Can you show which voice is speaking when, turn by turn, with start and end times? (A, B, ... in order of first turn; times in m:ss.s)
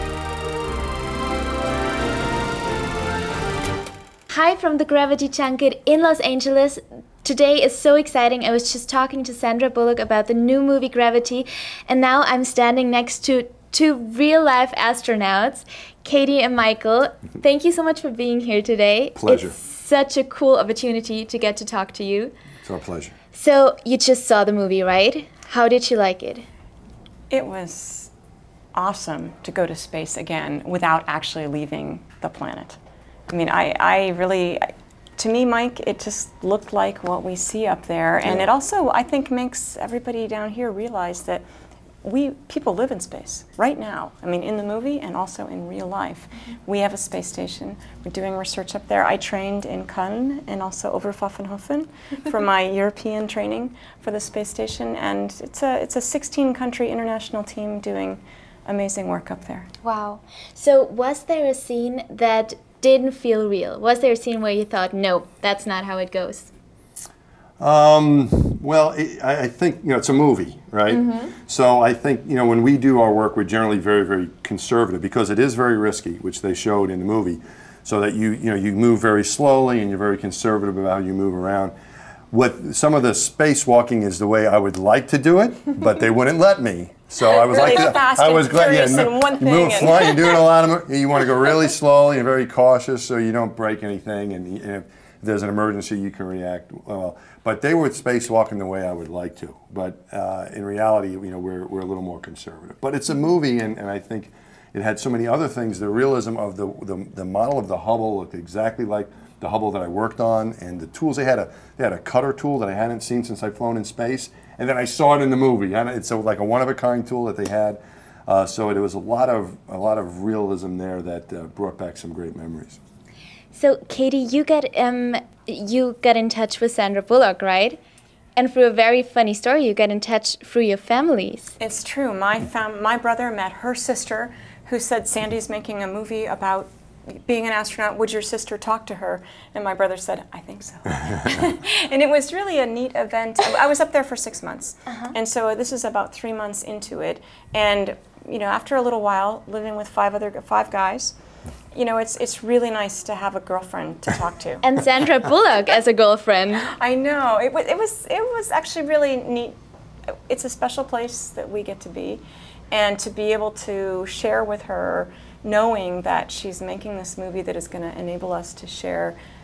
0:04.3-0:22.3 A
0:19.2-0:19.6 B
0:22.6-0:23.1 B
0:23.3-0:26.5 A
0:27.3-0:28.1 C
0:28.8-0:32.8 C
0:33.3-0:34.7 C
0:35.2-0:41.4 C
0:42.0-0:59.7 C
0:59.8-1:06.5 A
1:07.6-1:21.7 B
1:10.9-1:11.3 A
1:22.3-2:02.8 B
1:27.5-1:30.5 C
2:03.5-2:07.8 A
2:08.4-2:11.6 A
2:11.6-2:16.7 C
2:17.2-2:31.2 C
2:31.7-2:34.6 C
2:34.6-2:36.7 A
2:36.8-2:39.6 C
2:40.3-2:49.2 C